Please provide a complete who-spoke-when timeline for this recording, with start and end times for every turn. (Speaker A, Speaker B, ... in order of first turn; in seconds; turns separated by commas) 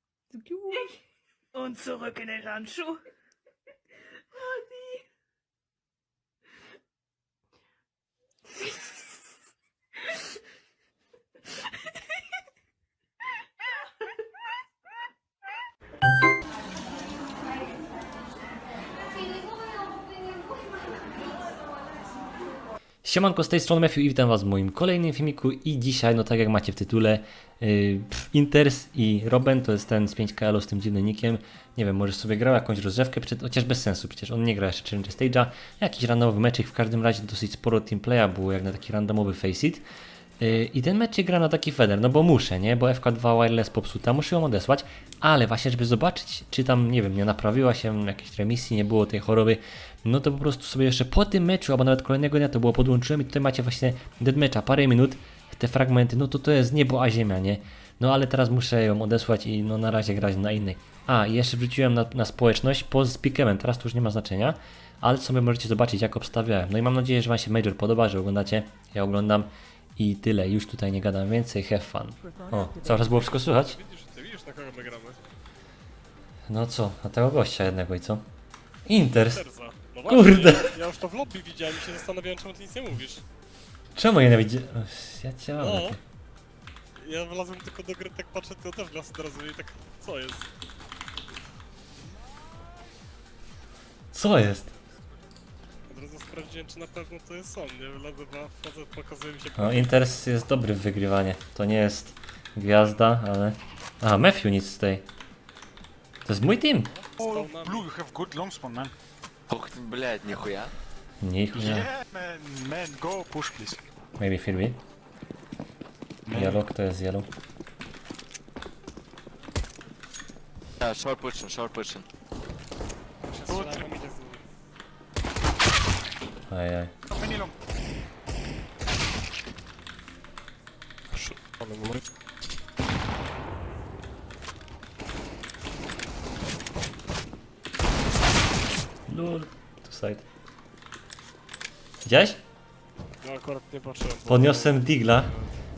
Speaker A: 0.3-1.0, Speaker A: 1.5-3.0, Speaker A: 4.4-5.0, Speaker B: 23.0-39.8, Speaker B: 40.4-73.8, Speaker A: 72.3-72.9, Speaker C: 72.9-75.2, Speaker B: 76.5-78.2, Speaker B: 78.8-79.5, Speaker C: 79.3-83.2, Speaker B: 80.0-80.8, Speaker B: 84.0-86.0, Speaker C: 85.6-86.0, Speaker C: 87.0-90.5, Speaker B: 94.1-94.7, Speaker C: 95.9-99.9, Speaker B: 99.6-105.0, Speaker B: 106.2-106.9, Speaker C: 107.0-107.9, Speaker D: 107.2-108.9, Speaker E: 109.5-110.7, Speaker B: 111.2-111.9, Speaker D: 111.5-113.8, Speaker B: 114.2-114.8, Speaker D: 116.2-116.7, Speaker B: 116.3-117.3, Speaker E: 120.8-122.1, Speaker C: 123.3-124.5, Speaker D: 123.4-123.9, Speaker B: 126.5-126.9, Speaker D: 127.1-127.5, Speaker C: 131.1-132.0, Speaker B: 139.1-140.2, Speaker B: 142.0-142.4, Speaker C: 143.2-145.5, Speaker B: 144.2-145.3